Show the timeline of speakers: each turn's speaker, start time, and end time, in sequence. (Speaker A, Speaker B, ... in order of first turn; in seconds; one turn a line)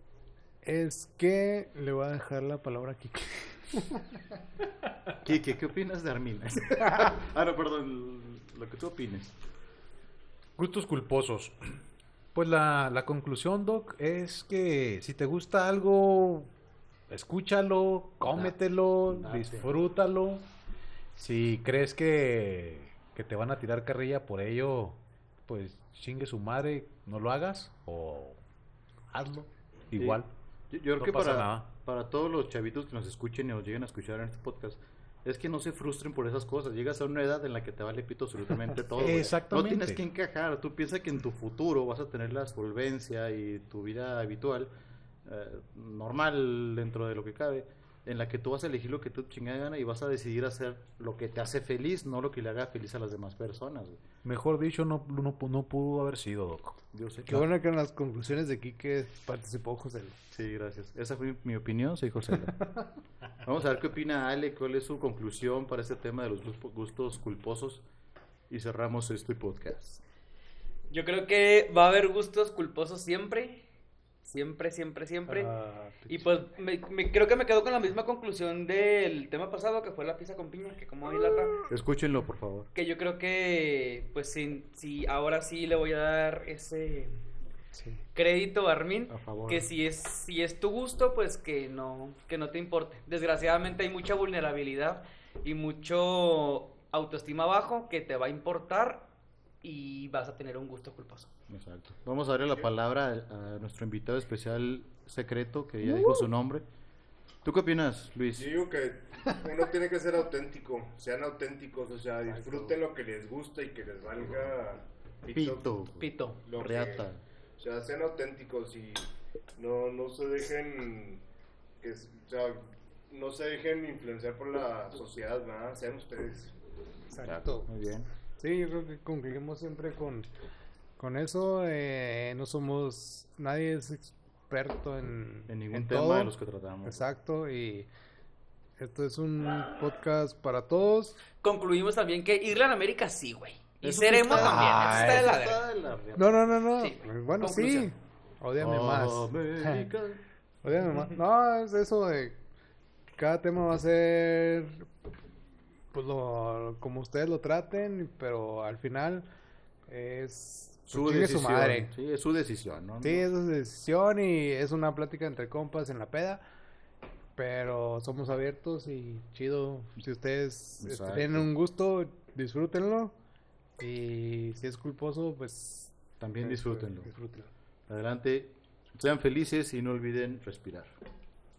Speaker A: 0.6-4.0
Speaker B: 5.2-9.3
Speaker C: 10.6-11.6
Speaker C: 12.3-16.5
Speaker C: 17.1-20.5
Speaker B: 18.2-18.5
Speaker B: 19.1-19.7
Speaker C: 21.1-28.4
Speaker C: 29.1-30.3
Speaker B: 29.9-44.7
Speaker C: 31.0-31.7
Speaker C: 38.9-40.0
Speaker B: 45.2-54.0
Speaker C: 54.2-57.4
Speaker B: 56.9-57.3
Speaker A: 57.3-60.2
Speaker B: 60.3-62.8
Speaker B: 63.4-67.8
Speaker B: 68.5-70.0
Speaker D: 70.9-73.6
Speaker D: 74.2-75.5
Speaker A: 75.5-75.9
Speaker D: 76.1-81.6
Speaker B: 81.7-82.7
Speaker D: 82.7-87.2
Speaker A: 87.7-88.0
Speaker D: 88.1-99.1
Speaker B: 89.1-89.7
Speaker D: 99.6-101.3
Speaker B: 101.5-106.6
Speaker B: 107.4-108.5
Speaker E: 108.3-115.8
Speaker A: 112.3-112.8
Speaker B: 115.3-117.2
Speaker D: 116.0-116.4
Speaker E: 116.4-117.0
Speaker E: 117.6-121.2
Speaker E: 121.8-126.5
Speaker A: 127.1-127.7
Speaker B: 127.2-128.1
Speaker A: 128.4-130.3
Speaker A: 131.0-136.3
Speaker B: 135.5-137.1
Speaker A: 136.8-137.9
Speaker A: 138.8-141.2
Speaker D: 141.4-145.6
Speaker B: 143.8-146.5
Speaker A: 144.3-145.2
Speaker A: 146.2-149.9
Speaker D: 146.8-147.9
Speaker B: 148.6-150.2
Speaker A: 150.6-152.4
Speaker A: 153.2-154.8
Speaker A: 155.9-159.3
Speaker A: 159.9-161.9
Speaker B: 160.9-163.2
Speaker A: 163.0-166.4
Speaker A: 167.3-173.1
Speaker B: 170.8-171.5
Speaker A: 173.8-177.5
Speaker B: 176.2-177.1
Speaker B: 177.9-180.9